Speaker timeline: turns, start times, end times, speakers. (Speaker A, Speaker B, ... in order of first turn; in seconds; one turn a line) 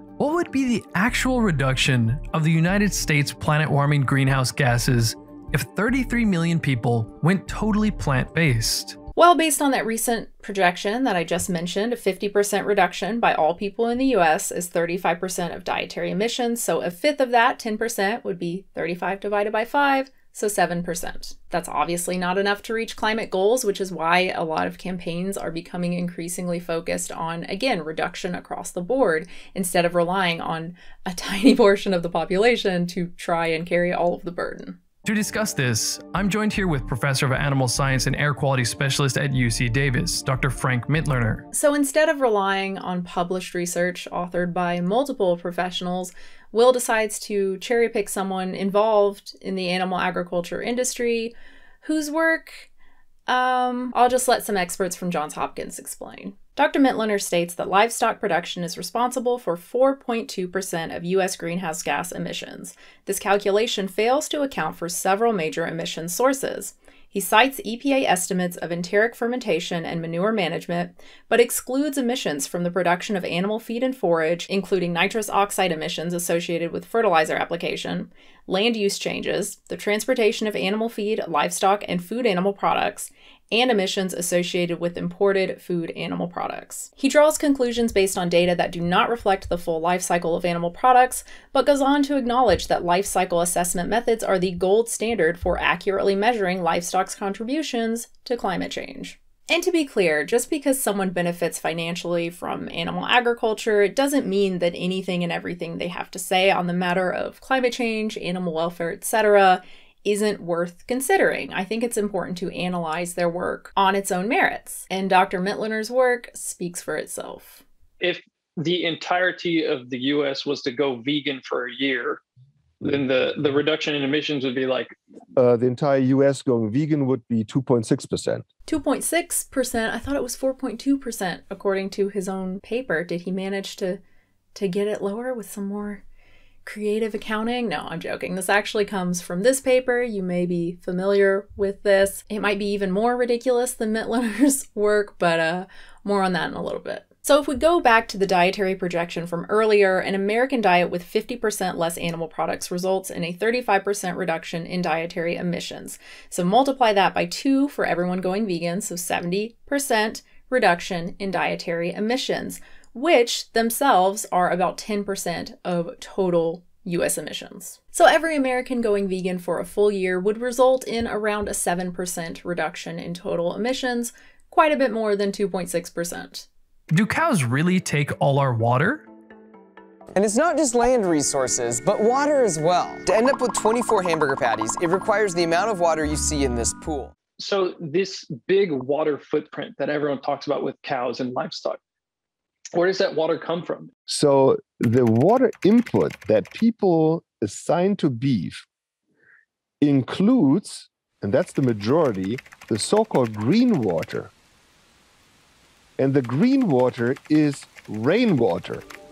Speaker A: 0.2-9.0
Speaker B: 9.2-34.8
Speaker A: 35.0-41.5
Speaker B: 41.5-52.7
Speaker B: 53.3-117.6
Speaker C: 118.0-122.2
Speaker C: 122.8-124.9
Speaker D: 125.4-128.4
Speaker B: 128.7-134.0
Speaker B: 134.6-136.0
Speaker B: 136.7-176.5
Speaker A: 176.9-179.1
Speaker E: 180.1-187.1
Speaker C: 187.4-191.8
Speaker C: 192.7-193.9
Speaker D: 194.1-198.6
Speaker D: 199.8-204.3
Speaker D: 206.0-208.9